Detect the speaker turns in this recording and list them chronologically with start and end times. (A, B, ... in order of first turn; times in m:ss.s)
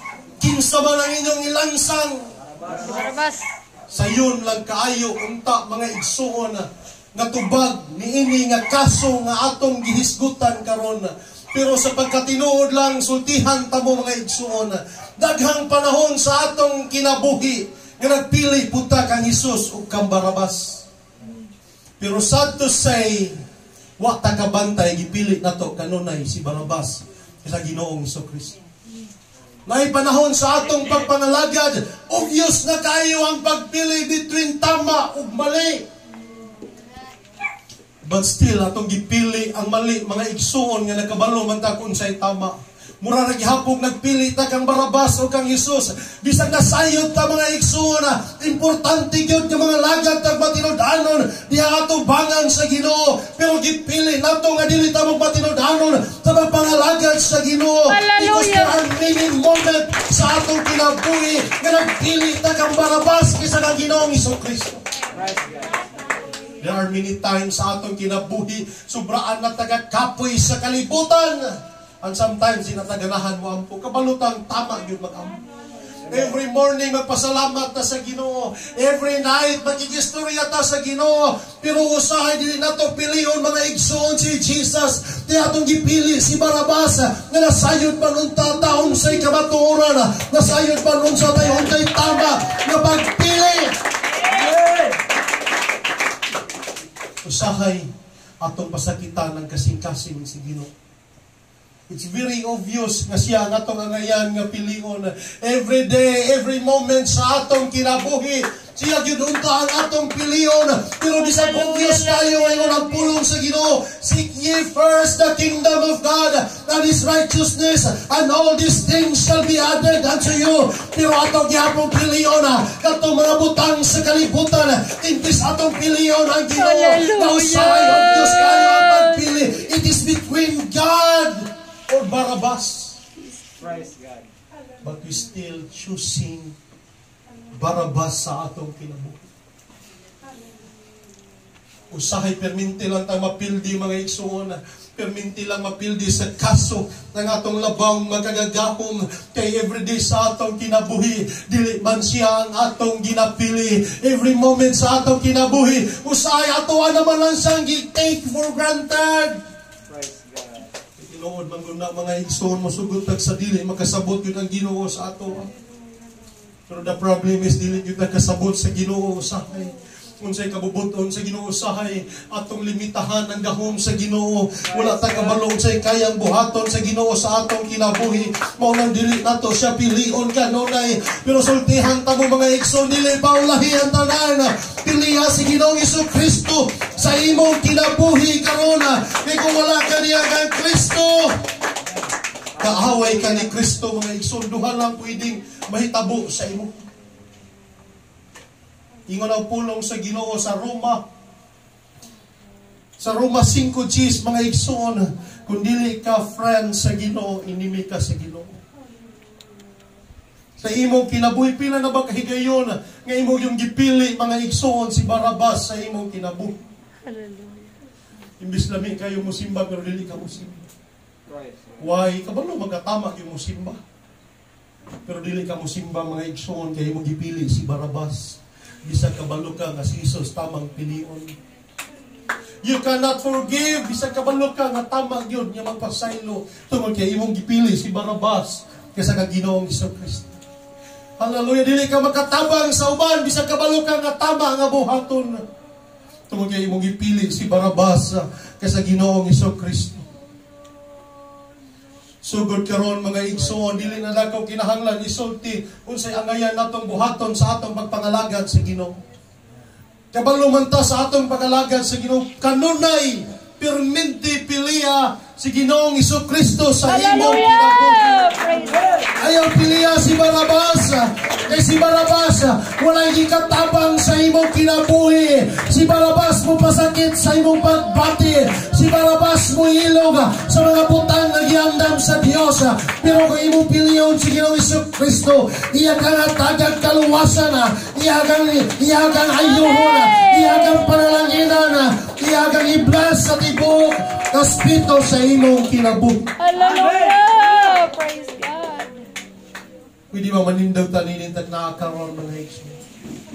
0:00.4-0:02.3 A
0:02.8-0:03.5 B
0:03.9-0:20.8 A
0:22.0-0:23.4 A
0:24.0-0:28.6 A
0:29.6-0:35.8 A
0:38.0-1:04.8 A
0:57.9-0:58.8 B
1:05.2-1:05.8 C
1:06.6-1:15.4 A
1:16.1-1:33.8 A
1:37.2-1:37.9 A
1:38.4-1:40.7 A
1:41.9-2:13.0 A
1:51.2-1:53.2 B
2:06.6-2:09.5 B
2:13.2-2:13.4 B
2:13.6-2:14.3 C
2:14.8-2:16.5 A
2:17.6-2:19.3 A
2:21.9-2:39.4 A
2:39.9-2:40.7 C
2:41.0-2:45.5 A
2:46.7-3:11.4 A
2:54.7-2:55.4 C
3:12.6-3:16.8 A
3:12.6-3:13.3 C
3:19.1-3:21.0 A
3:23.0-3:28.6 A
3:30.6-3:36.6 A
3:37.0-3:37.8 B
3:38.4-3:40.7 A
3:41.3-3:41.8 C
3:41.8-3:43.8 A
3:45.1-3:51.3 A
3:52.6-4:00.4 A
4:01.2-4:05.4 A
4:06.3-4:10.0 A
4:12.2-4:19.0 A
4:20.1-4:28.3 A
4:26.8-4:29.0 B
4:29.2-4:56.3 A
4:49.4-4:51.0 B
4:56.4-4:59.0 B
5:00.1-5:02.8 A